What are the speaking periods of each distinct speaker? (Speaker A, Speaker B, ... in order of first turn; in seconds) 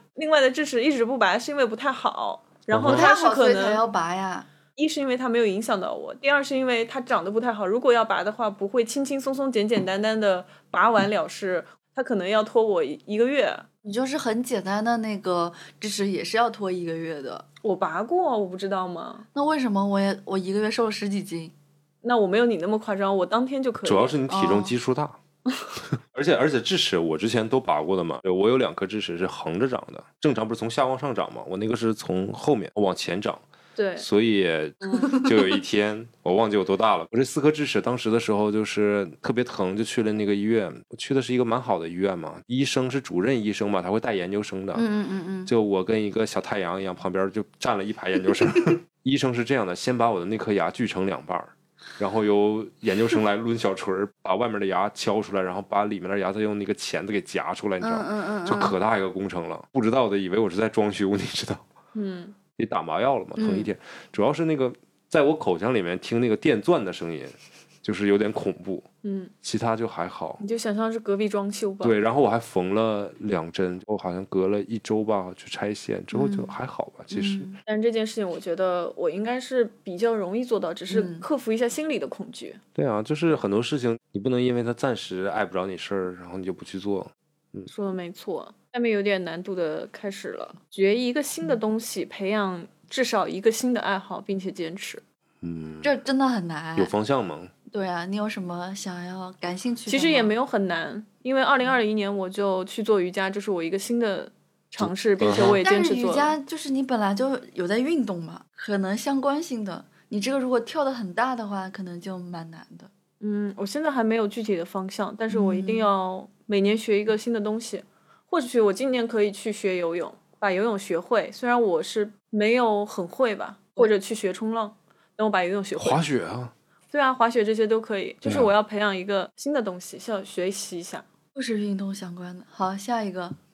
Speaker A: 0.1-3.8, 4.8-13.7, 17.6-19.3, 22.0-24.2, 33.8-34.0, 34.8-35.1, 62.0-62.4, 69.0-69.3, 70.4-72.0, 77.7-82.6, 87.7-95.0, 99.9-106.3, 113.2-126.0, 126.9-131.1
Speaker B: 2.7-3.1, 23.8-25.2, 26.1-33.4, 34.0-44.9, 45.5-61.6, 62.6-68.9, 69.4-70.4, 71.8-77.5, 82.8-87.7, 95.4-95.9, 96.8-97.5, 104.8-105.6, 125.8-126.5, 128.2-128.5
Speaker C: 2.9-4.5, 13.8-17.4, 19.3-21.5, 24.3-24.7, 35.1-35.5, 44.8-45.5, 57.8-58.8, 63.4-63.7, 76.1-76.6, 77.1-77.6, 80.9-81.2, 95.8-96.9, 97.7-100.3, 105.6-112.9, 115.3-115.9, 131.3-133.4